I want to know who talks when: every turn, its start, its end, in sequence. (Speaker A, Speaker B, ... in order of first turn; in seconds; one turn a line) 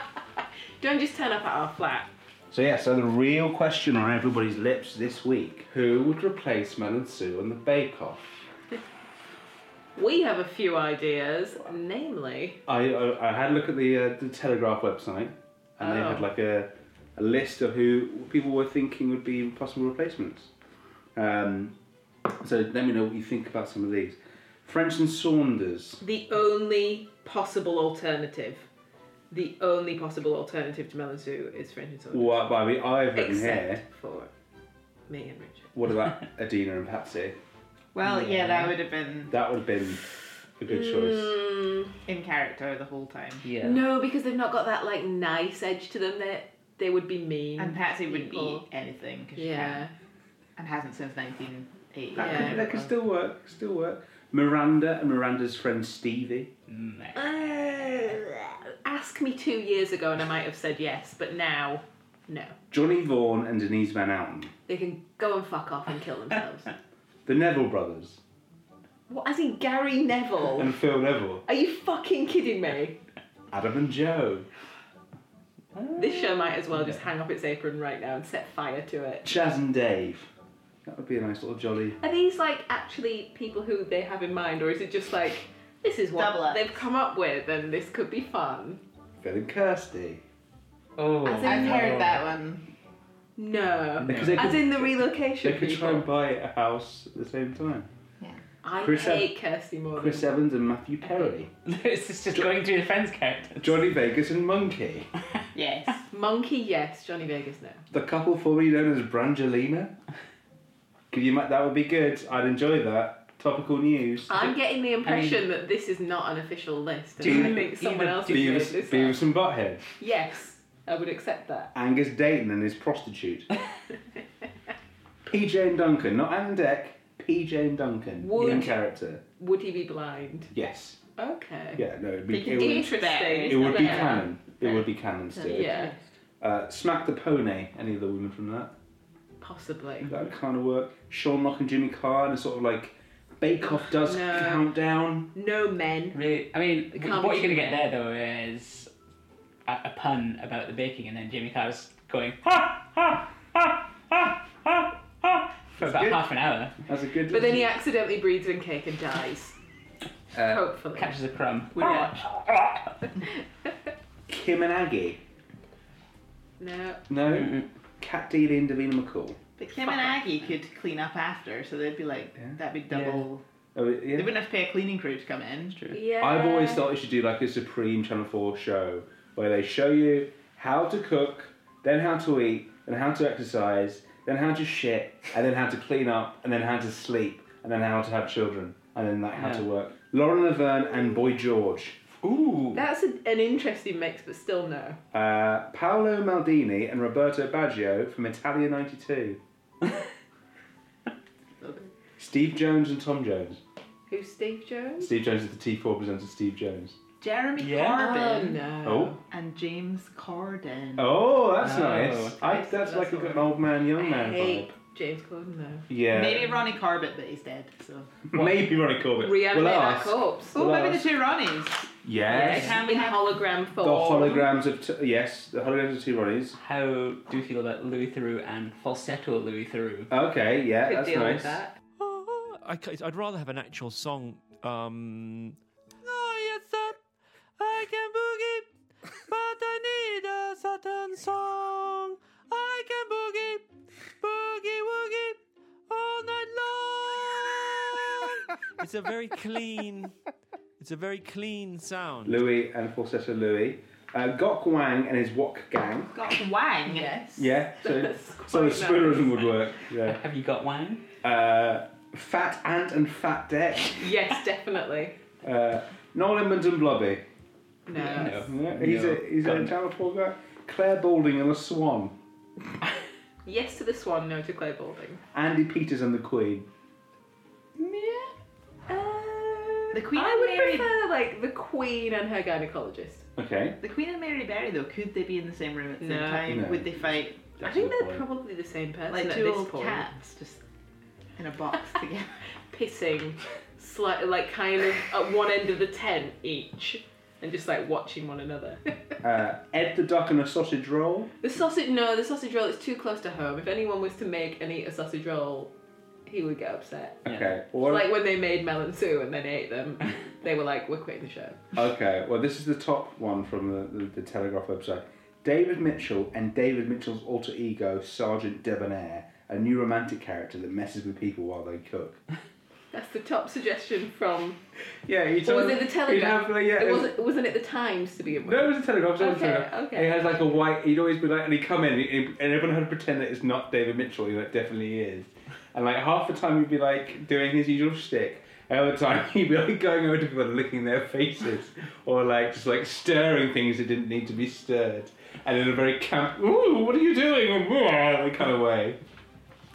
Speaker A: 0.8-2.1
Speaker B: 2.5-8.4
Speaker A: 9.9-12.6
Speaker B: 12.7-20.5
Speaker A: 15.8-16.3
Speaker B: 21.1-21.7
Speaker B: 22.4-26.0
Speaker A: 26.0-28.7
Speaker A: 29.3-32.5
Speaker B: 32.1-33.8
Speaker A: 33.1-34.3
Speaker A: 35.1-35.7
Speaker B: 35.7-37.4
Speaker C: 37.9-39.3
Speaker D: 38.1-38.7
Speaker B: 39.3-40.0
Speaker B: 40.6-41.4
Speaker A: 40.7-41.9
Speaker C: 42.0-43.5
Speaker D: 43.4-43.8
Speaker A: 43.6-48.6
Speaker C: 47.6-49.9
Speaker A: 49.4-49.9
Speaker C: 50.5-52.9
Speaker B: 52.1-56.5
Speaker A: 52.1-52.6
Speaker D: 56.7-58.1
Speaker A: 57.1-62.5
Speaker B: 62.7-64.5
Speaker A: 64.7-66.7
Speaker B: 67.2-68.2
Speaker A: 69.1-70.7
Speaker B: 70.5-71.4
Speaker A: 71.5-73.0
Speaker B: 73.5-74.5
Speaker D: 75.7-76.5
Speaker A: 75.9-79.3
Speaker B: 79.2-80.3
Speaker B: 80.8-82.0
Speaker A: 82.0-88.8
Speaker C: 86.2-86.7
Speaker B: 89.2-90.2
Speaker D: 91.0-92.2
Speaker C: 91.2-92.7
Speaker A: 91.4-92.1
Speaker A: 93.3-96.1
Speaker D: 94.0-94.5
Speaker B: 94.0-97.9
Speaker A: 98.6-100.3
Speaker B: 98.7-99.3
Speaker B: 100.0-101.5
Speaker D: 101.7-103.8
Speaker B: 103.6-105.1
Speaker C: 105.5-106.0
Speaker A: 106.1-107.8
Speaker B: 107.9-109.9
Speaker B: 111.1-114.3
Speaker A: 114.3-119.2
Speaker D: 114.3-115.4
Speaker D: 117.2-118.7
Speaker B: 117.2-117.6
Speaker B: 118.3-119.8
Speaker A: 120.0-121.7
Speaker B: 121.7-123.5
Speaker B: 125.2-129.2
Speaker A: 128.2-128.8
Speaker D: 128.4-128.6
Speaker A: 129.4-130.5
Speaker B: 130.5-131.0
Speaker A: 131.2-131.8
Speaker B: 131.8-132.9
Speaker C: 132.3-134.2
Speaker A: 132.4-134.3
Speaker B: 133.4-135.7
Speaker C: 135.3-136.0
Speaker A: 135.4-135.9
Speaker B: 136.4-138.7
Speaker A: 139.4-140.1
Speaker B: 140.0-145.3
Speaker A: 143.6-144.7
Speaker A: 145.3-146.4
Speaker D: 146.1-148.9
Speaker A: 146.9-147.9
Speaker D: 149.7-156.8
Speaker B: 155.8-157.7
Speaker A: 157.3-159.5
Speaker B: 160.3-160.6
Speaker A: 160.4-161.1
Speaker D: 160.9-162.8
Speaker A: 161.7-162.1
Speaker B: 164.3-165.2
Speaker A: 166.6-167.0
Speaker B: 167.1-169.4
Speaker D: 167.3-167.7
Speaker C: 169.6-173.4
Speaker A: 169.8-170.2
Speaker D: 172.9-173.2
Speaker B: 173.7-174.3
Speaker C: 174.1-176.0
Speaker A: 175.9-176.9
Speaker B: 176.2-192.0
Speaker D: 189.3-189.6
Speaker D: 192.2-192.8
Speaker A: 192.7-195.0
Speaker B: 195.1-199.4
Speaker C: 201.6-201.9
Speaker B: 202.2-203.6
Speaker A: 204.1-205.1
Speaker B: 205.0-207.0
Speaker C: 207.2-208.7
Speaker D: 207.6-208.0
Speaker A: 207.7-209.2
Speaker B: 208.8-209.2
Speaker C: 209.2-211.2
Speaker B: 211.0-214.7
Speaker D: 211.6-212.4
Speaker A: 212.4-215.9
Speaker B: 215.9-216.6
Speaker C: 216.1-218.2
Speaker B: 218.3-221.1
Speaker A: 219.2-220.6
Speaker C: 220.5-223.3
Speaker B: 222.0-222.8
Speaker A: 222.3-224.5
Speaker B: 223.8-226.6
Speaker D: 226.6-230.1
Speaker B: 230.1-231.6
Speaker A: 230.8-231.8
Speaker E: 232.0-237.0
Speaker E: 237.6-238.7
Speaker E: 239.3-243.6
Speaker E: 244.2-245.4
Speaker E: 245.9-250.1
Speaker E: 250.8-252.4
Speaker B: 252.2-256.2
Speaker C: 256.1-257.3
Speaker A: 256.9-259.6
Speaker B: 257.4-260.2
Speaker D: 260.0-261.0
Speaker B: 261.2-264.1
Speaker A: 264.0-265.2
Speaker B: 265.4-267.2
Speaker A: 267.9-268.5
Speaker D: 267.9-269.7
Speaker B: 268.4-272.1
Speaker A: 273.4-275.2
Speaker B: 275.3-276.7
Speaker A: 277.8-278.3
Speaker A: 278.9-283.3
Speaker C: 279.9-280.9
Speaker B: 283.4-283.8
Speaker C: 283.8-287.4
Speaker A: 286.0-286.6
Speaker B: 286.4-287.0
Speaker B: 287.5-288.2
Speaker A: 287.6-290.1
Speaker C: 289.1-290.6
Speaker C: 291.4-292.4
Speaker A: 292.7-299.1
Speaker B: 299.2-301.3
Speaker A: 301.4-305.7
Speaker A: 306.2-307.2
Speaker D: 307.2-307.5
Speaker B: 307.2-308.1
Speaker A: 307.8-311.6
Speaker B: 311.7-322.2
Speaker A: 322.9-324.6
Speaker B: 325.1-327.1
Speaker A: 325.4-330.5
Speaker B: 328.4-349.0